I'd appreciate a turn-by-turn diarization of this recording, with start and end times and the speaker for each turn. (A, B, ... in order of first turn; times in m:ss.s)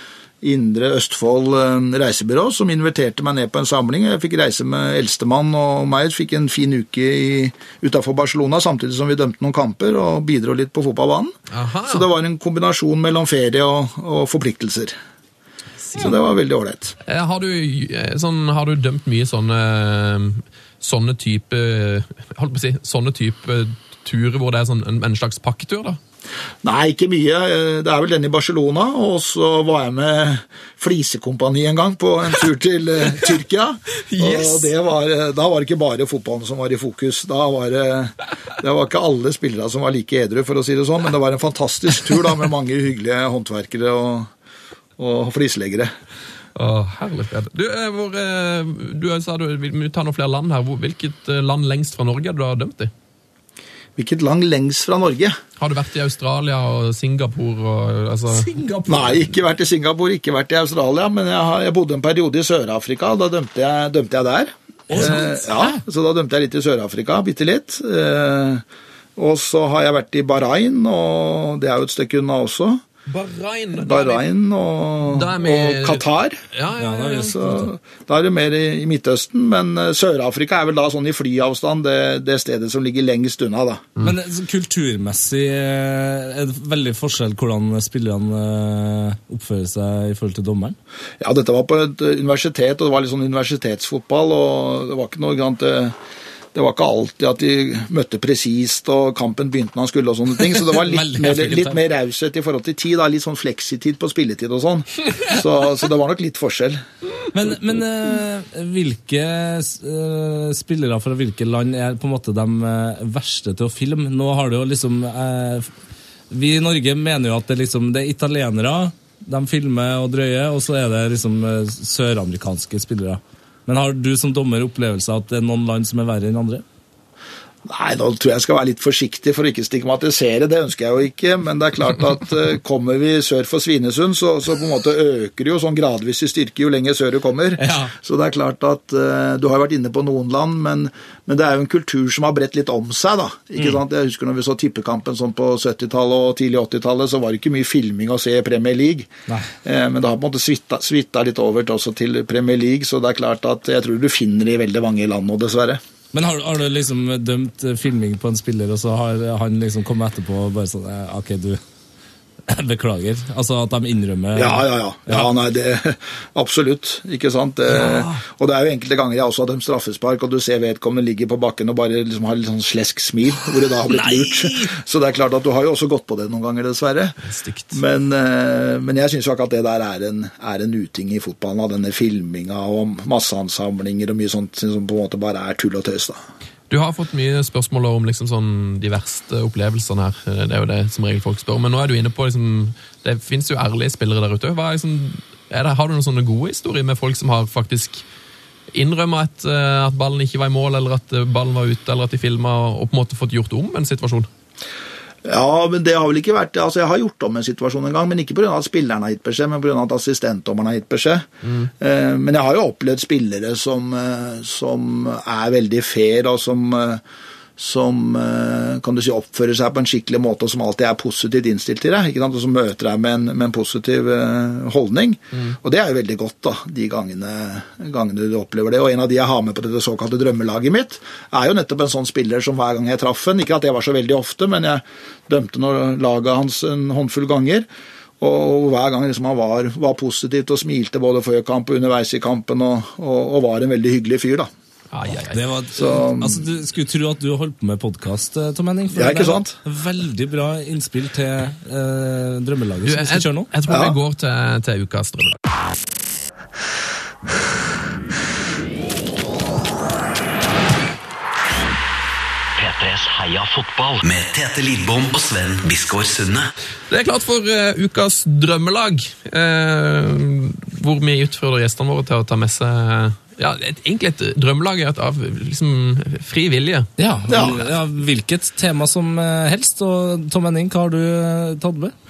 0:00.4-0:11.3 A
0:11.5-0:12.0 B
0:11.9-0:14.9 A
0:15.8-0:16.1 B
0:16.0-0:16.9 A
0:17.0-0:26.0 B
0:26.6-0:44.3 A
0:34.1-0:34.7 B
0:45.0-0:45.9 A
0:46.6-0:52.9 B
0:54.0-0:55.4 A
0:55.6-0:58.5 B
0:58.3-0:59.3 C
0:58.9-1:08.6 A
1:04.9-1:05.8 C
1:09.2-1:12.8 A
1:13.1-1:14.2 B
1:13.8-1:16.4 A
1:15.1-1:17.4 B
1:16.8-1:17.7 C
1:17.2-1:23.8 A
1:24.0-1:30.8 C
1:31.2-1:36.0 A
1:36.5-1:46.8 A
1:40.4-1:41.8 C
1:47.3-1:55.7 C
1:56.3-2:06.6 C
2:07.6-2:29.1 A
2:17.6-2:17.9 C
2:29.6-2:35.8 A
2:36.1-2:41.6 C
2:42.5-2:45.3 C
2:44.3-2:57.2 A
2:47.8-2:48.1 B
2:53.9-2:54.7 C
2:57.2-2:57.8 B
2:57.7-3:06.2 A
3:06.7-3:18.0 B
3:18.7-3:24.3 B
3:25.2-3:31.3 A
3:31.4-3:31.7 B
3:31.8-3:37.0 A
3:37.6-3:57.7 A
3:58.2-4:04.5 A
4:04.9-4:05.4 B
4:05.3-4:13.5 C
4:05.7-4:06.4 A
4:08.9-4:09.6 A
4:12.8-4:15.4 B
4:13.7-4:14.0 A
4:22.6-4:26.5 D
4:26.9-4:36.9 B
4:37.0-4:41.9 C
4:37.3-4:37.6 A